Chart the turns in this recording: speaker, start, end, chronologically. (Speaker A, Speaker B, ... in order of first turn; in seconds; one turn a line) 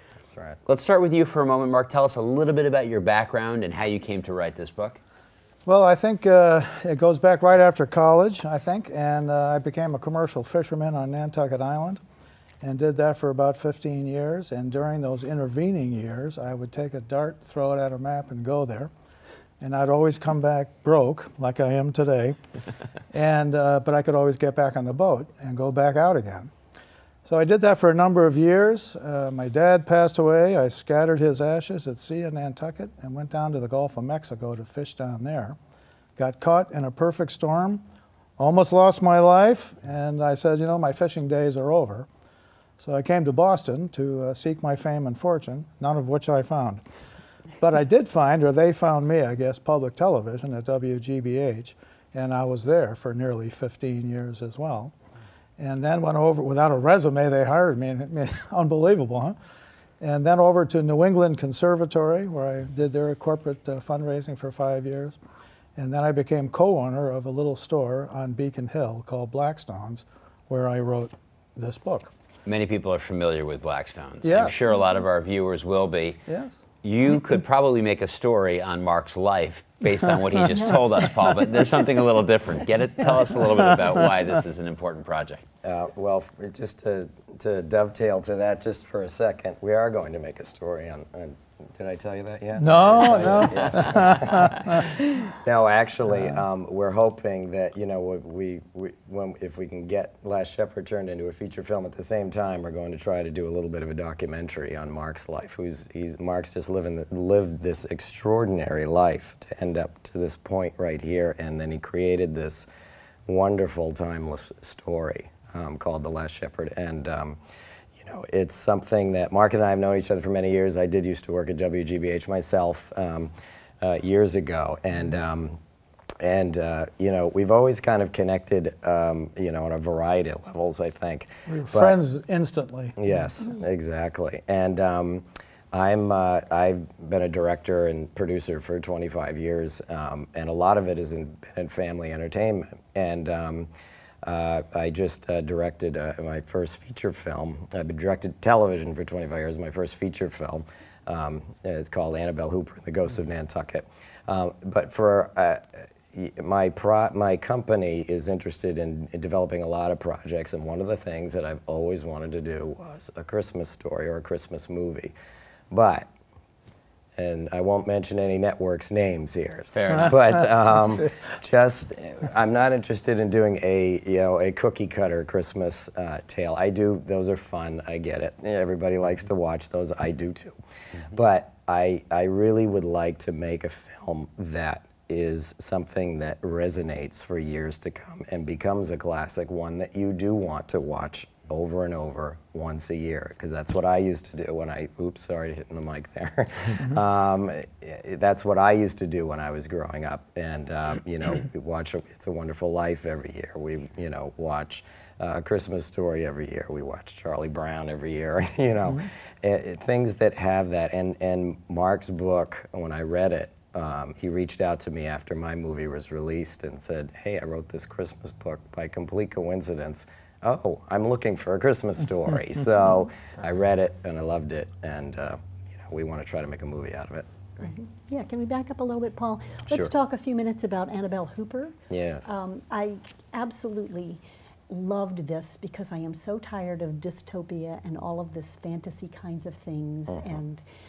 Speaker A: 0.2-0.6
Speaker B: 0.7-5.0
Speaker C: 5.7-12.0
Speaker C: 12.6-18.9
Speaker C: 19.6-22.4
Speaker C: 23.1-26.5
Speaker C: 27.2-35.6
Speaker C: 36.2-37.8
Speaker C: 38.4-42.1
Speaker C: 42.8-46.8
Speaker C: 47.6-54.9
Speaker C: 55.6-59.4
Speaker C: 60.0-65.2
Speaker C: 65.8-72.1
Speaker B: 72.5-76.2
Speaker C: 74.2-74.6
Speaker C: 76.3-76.6
Speaker B: 76.8-85.4
Speaker D: 80.5-81.0
Speaker C: 80.6-81.6
Speaker C: 83.4-83.9
Speaker A: 85.6-112.7
Speaker C: 92.6-95.0
Speaker B: 93.5-94.5
Speaker A: 113.3-117.4
Speaker A: 118.0-125.6
Speaker A: 126.2-132.0
Speaker C: 131.5-133.0
Speaker A: 133.0-143.7
Speaker A: 144.2-165.2
Speaker A: 165.7-166.1
Speaker A: 167.2-180.6
Speaker B: 169.7-170.2
Speaker A: 181.1-227.3
Speaker D: 227.6-231.7
Speaker A: 231.9-232.3
Speaker D: 232.2-240.6
Speaker A: 240.1-240.4